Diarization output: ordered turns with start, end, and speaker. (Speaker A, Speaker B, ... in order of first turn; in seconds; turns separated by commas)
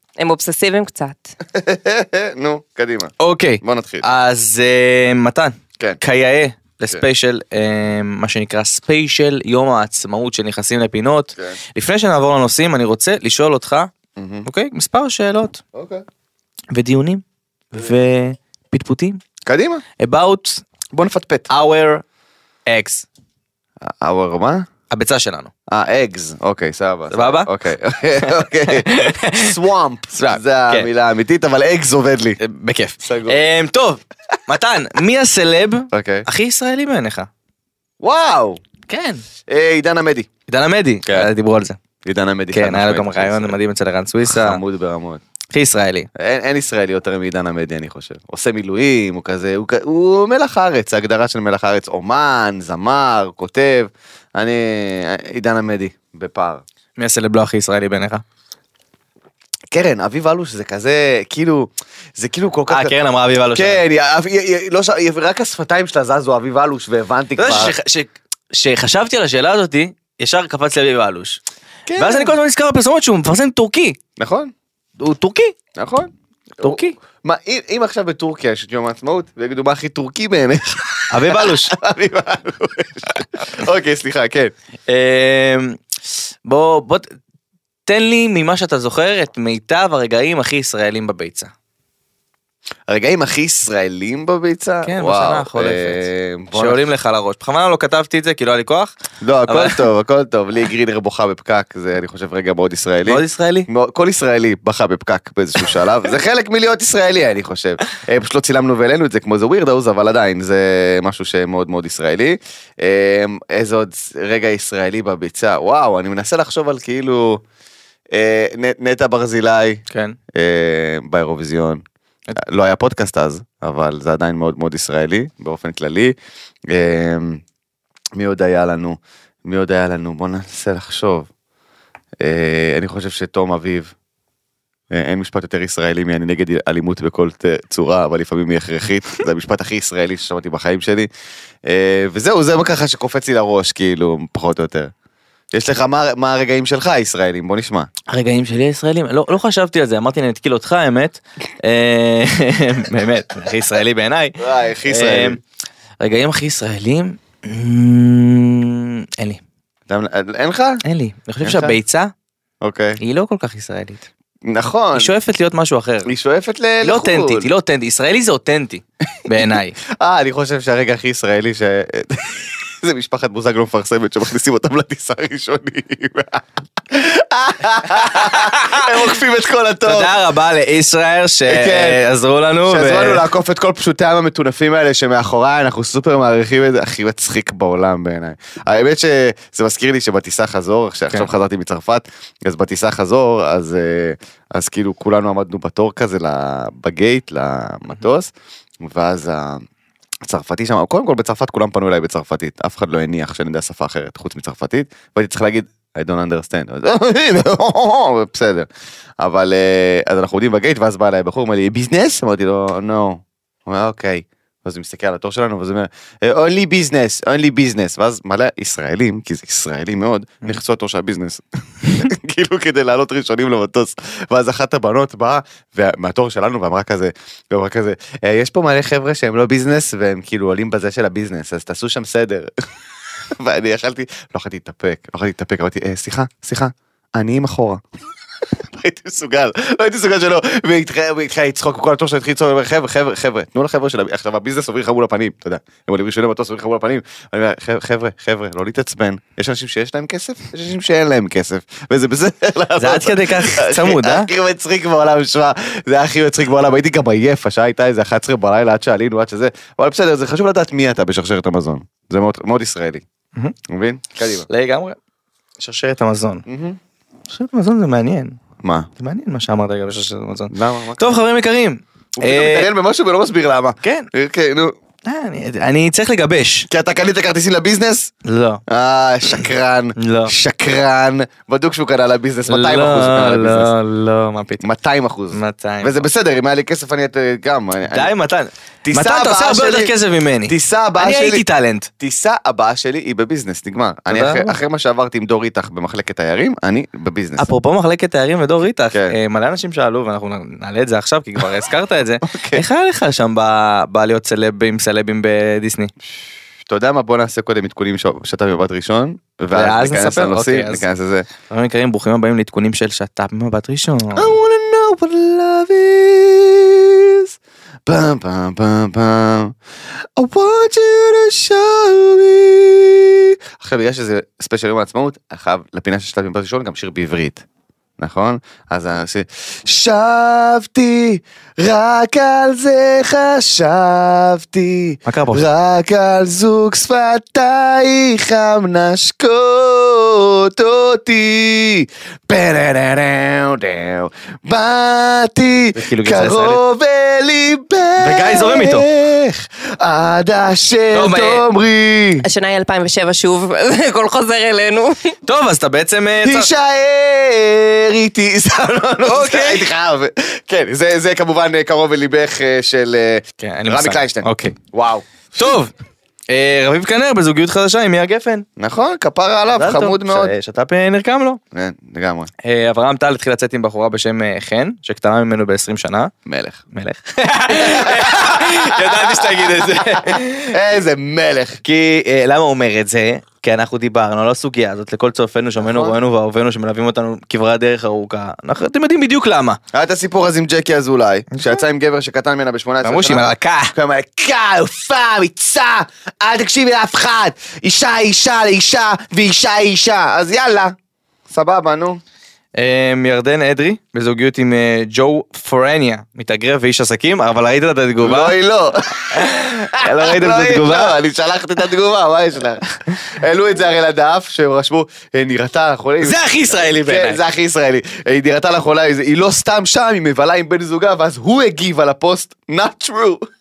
Speaker A: 0.2-1.2, Speaker B: 1.5-4.1, Speaker C: 3.2-13.9, Speaker B: 14.2-14.5, Speaker C: 14.4-15.6, Speaker B: 15.7-16.0, Speaker C: 16.7-19.2, Speaker B: 19.4-19.8, Speaker C: 20.0-20.6, Speaker B: 20.9-21.5, Speaker C: 21.5-22.0, Speaker C: 22.7-23.1, Speaker B: 23.8-24.6, Speaker C: 24.9-25.5, Speaker B: 25.7-32.4, Speaker C: 27.1-27.5, Speaker C: 28.3-29.5, Speaker C: 30.1-30.9, Speaker C: 32.4-37.3, Speaker B: 33.0-33.4, Speaker B: 35.9-36.3, Speaker B: 38.0-38.6, Speaker C: 38.9-39.2, Speaker B: 39.5-40.3, Speaker C: 40.5-41.8, Speaker B: 42.0-43.6, Speaker C: 42.5-44.6, Speaker B: 44.2-45.2, Speaker C: 45.5-46.1, Speaker B: 46.1-56.6, Speaker C: 57.0-58.2, Speaker B: 59.7-63.0, Speaker C: 62.7-63.8, Speaker B: 63.5-67.8, Speaker C: 67.4-71.4, Speaker B: 71.9-72.3, Speaker C: 72.0-74.0, Speaker B: 74.2-74.5, Speaker C: 75.0-75.5, Speaker B: 75.8-84.5, Speaker C: 76.6-77.0, Speaker C: 81.1-81.8, Speaker C: 84.9-85.8, Speaker C: 86.5-87.1, Speaker C: 87.9-91.5, Speaker B: 92.9-96.9, Speaker C: 94.8-98.9, Speaker B: 99.2-117.4, Speaker C: 99.5-99.8, Speaker C: 103.1-103.7, Speaker B: 118.1-119.8, Speaker C: 119.9-120.2, Speaker B: 120.3-121.8, Speaker B: 122.4-126.2, Speaker B: 126.7-127.4, Speaker B: 128.2-131.3, Speaker B: 132.2-133.9, Speaker B: 134.9-141.1, Speaker B: 141.7-144.9, Speaker B: 145.5-147.9, Speaker C: 148.1-155.4, Speaker B: 154.4-155.4, Speaker C: 156.0-159.4, Speaker B: 159.9-160.8, Speaker C: 160.8-162.1, Speaker B: 161.4-161.8, Speaker B: 162.6-163.0, Speaker C: 163.0-164.1, Speaker B: 164.5-165.1, Speaker C: 164.9-166.1, Speaker B: 166.1-167.5, Speaker C: 166.8-169.8, Speaker B: 169.9-180.1, Speaker C: 178.0-178.9, Speaker C: 179.8-183.3, Speaker B: 181.5-182.0, Speaker B: 182.7-199.6, Speaker B: 200.2-208.7, Speaker B: 209.2-232.7, Speaker B: 233.3-237.8, Speaker B: 238.6-263.0, Speaker C: 252.8-254.3, Speaker B: 263.7-264.5, Speaker C: 264.5-265.0, Speaker C: 265.6-266.4, Speaker B: 266.5-266.8, Speaker C: 267.3-268.4, Speaker B: 268.6-268.9, Speaker C: 269.0-272.7, Speaker B: 270.5-271.2, Speaker B: 272.2-274.7, Speaker C: 273.8-274.1, Speaker C: 275.0-276.7, Speaker B: 276.7-278.1, Speaker C: 278.2-278.6, Speaker B: 278.7-283.7, Speaker C: 280.0-280.3, Speaker C: 282.5-284.6, Speaker B: 284.6-288.1, Speaker C: 285.3-286.1, Speaker C: 287.9-291.9, Speaker B: 288.9-289.9, Speaker B: 290.5-291.4, Speaker B: 292.0-297.5, Speaker C: 294.1-294.6, Speaker C: 297.4-305.9, Speaker B: 298.9-299.2, Speaker B: 302.2-302.6, Speaker B: 306.6-311.3, Speaker C: 309.5-310.9, Speaker C: 311.5-314.4, Speaker B: 314.1-317.3, Speaker B: 317.9-319.6, Speaker B: 320.2-327.4, Speaker B: 328.0-352.2, Speaker C: 335.1-335.4, Speaker C: 345.8-346.6, Speaker C: 348.0-348.9, Speaker C: 350.9-351.4, Speaker A: 352.2-355.1, Speaker C: 355.3-356.5, Speaker B: 356.2-365.1, Speaker C: 359.0-359.7, Speaker C: 363.4-364.6, Speaker C: 365.4-365.7, Speaker C: 366.3-368.4, Speaker B: 368.6-370.4, Speaker C: 369.6-371.4, Speaker B: 371.5-372.3, Speaker C: 372.4-376.1, Speaker B: 376.2-376.6, Speaker C: 376.7-380.5, Speaker B: 377.5-381.6, Speaker C: 381.6-389.6, Speaker B: 385.6-386.0, Speaker B: 389.7-400.8, Speaker C: 391.3-391.6, Speaker C: 392.8-393.7, Speaker B: 401.3-402.0, Speaker C: 402.6-408.4, Speaker B: 408.0-423.2, Speaker C: 409.0-411.0, Speaker C: 416.0-417.2